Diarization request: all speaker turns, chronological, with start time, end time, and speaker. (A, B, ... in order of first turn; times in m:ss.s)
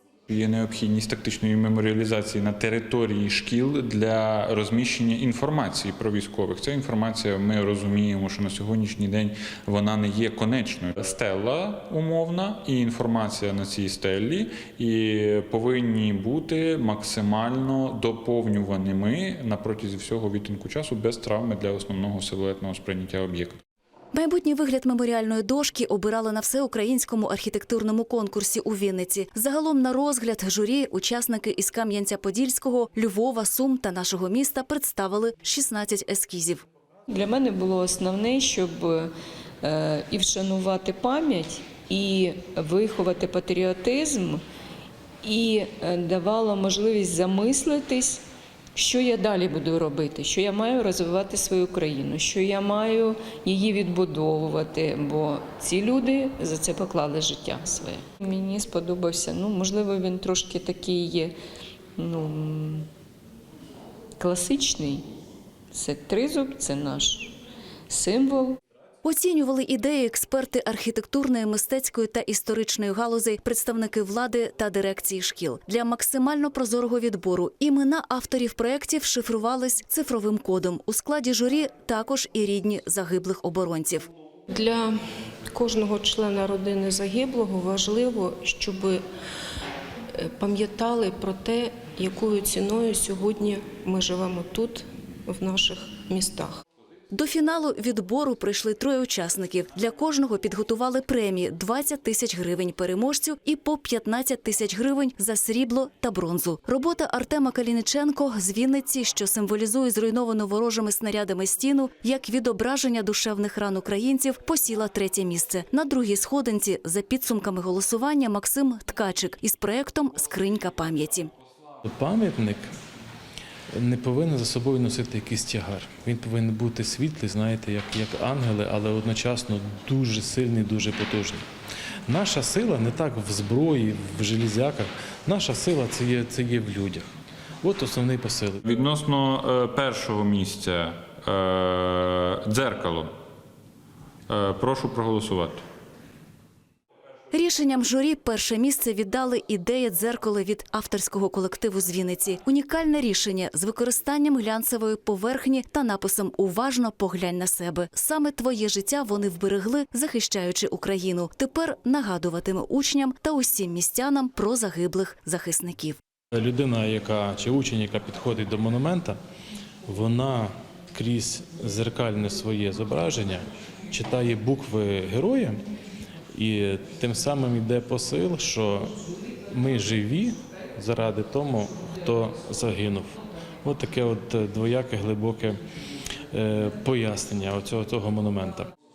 0:00.3-0:23.6 A
0:24.1-0:36.6 B
0:37.1-0:39.1 C
0:39.6-0:44.4 C
0:45.2-0:48.2 C
0:48.7-1:01.4 C
1:02.0-1:02.9 C
1:04.2-1:05.0 C
1:05.7-1:07.4 C
1:07.9-1:08.6 C
1:09.0-1:24.1 B
1:24.5-1:24.9 D
1:25.5-1:29.0 D
1:30.1-1:36.6 D
1:37.1-2:01.3 B
2:01.8-2:02.7 E
2:03.7-2:11.4 E
2:12.1-2:18.6 E
2:18.6-2:23.1 A
2:24.3-2:25.6 A
2:27.3-2:46.0 B
2:46.3-2:49.2 E
2:49.9-2:55.6 E
2:56.3-2:58.9 E
2:59.5-3:05.6 E
3:06.3-3:08.7 E